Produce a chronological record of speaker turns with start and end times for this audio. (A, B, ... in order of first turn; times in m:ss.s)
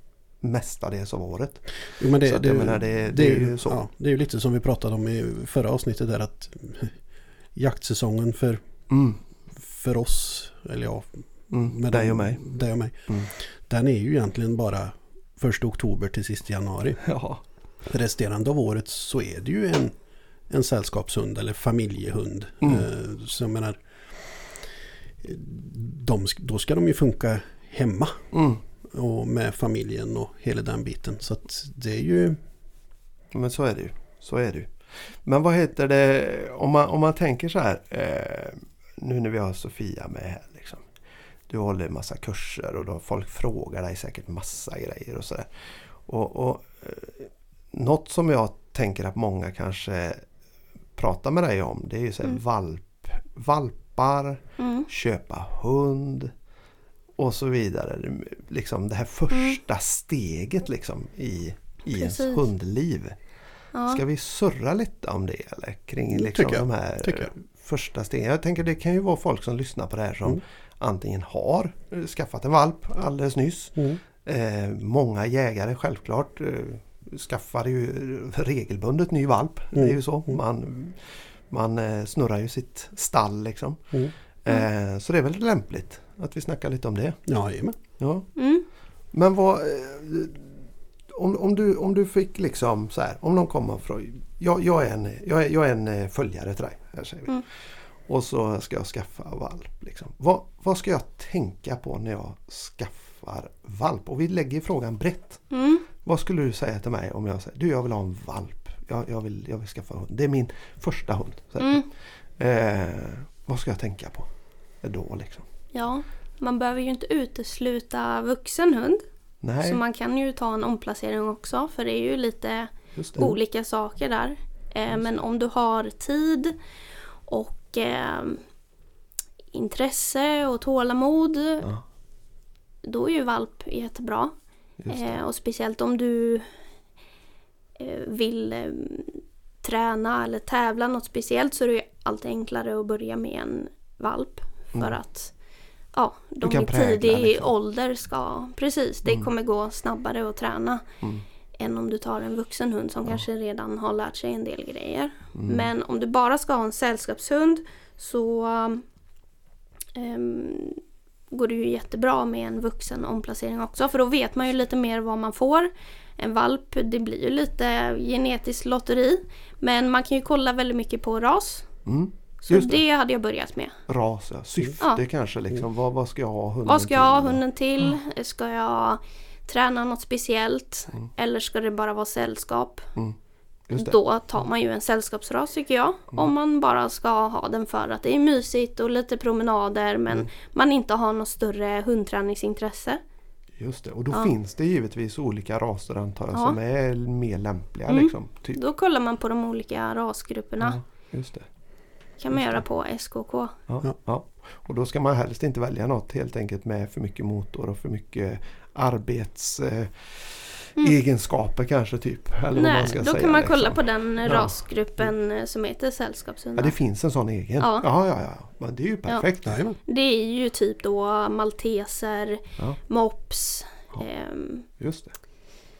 0:00.4-0:03.8 A
0:02.0-0:08.6 B
0:08.9-0:09.2 A
0:09.5-0:17.1 B
0:11.5-0:12.4 A
0:17.0-0:17.4 A
0:17.8-0:20.0 B
0:20.5-0:32.4 B
0:22.6-0:22.8 A
0:28.3-0:28.6 A
0:33.3-0:40.9 A
0:41.5-0:45.5 A
0:46.0-0:50.2 A
0:51.0-0:56.3 A
0:54.6-0:54.9 C
0:57.2-1:03.2 A
0:59.3-0:59.6 C
1:02.0-1:02.4 C
1:03.7-1:04.0 C
1:03.9-1:27.3 A
1:06.1-1:07.3 B
1:13.8-1:14.0 B
1:19.7-1:20.4 B
1:27.2-1:27.8 B
1:28.0-1:28.4 A
1:28.4-1:28.6 C
1:29.1-1:30.5 A
1:31.1-1:55.4 A
1:45.5-1:45.8 C
1:51.6-1:51.8 C
1:55.7-1:59.0 C
1:59.4-1:59.8 A
1:59.6-2:06.6 C
2:02.9-2:03.3 A
2:07.3-2:08.4 C
2:09.5-2:11.7 C
2:12.8-2:14.4 C
2:14.8-2:15.2 A
2:14.9-2:16.5 C
2:17.8-2:25.3 C
2:25.9-2:30.8 C
2:26.4-2:27.5 A
2:31.6-2:38.8 C
2:35.3-2:35.7 A
2:39.9-2:40.8 C
2:41.3-2:51.7 C
2:51.8-2:52.8 A
2:52.5-2:53.8 C
2:53.9-2:57.4 A
2:56.6-3:02.9 C
3:03.7-3:04.4 A
3:03.8-3:13.0 C
3:13.6-3:18.6 A
3:17.9-3:20.8 C
3:20.6-3:21.5 A
3:22.2-3:23.6 C
3:23.7-3:35.1 A
3:32.5-3:36.8 C
3:36.6-3:39.5 A
3:37.6-3:37.9 C
3:39.1-3:44.6 C
3:39.4-3:39.8 B
3:44.7-3:45.1 A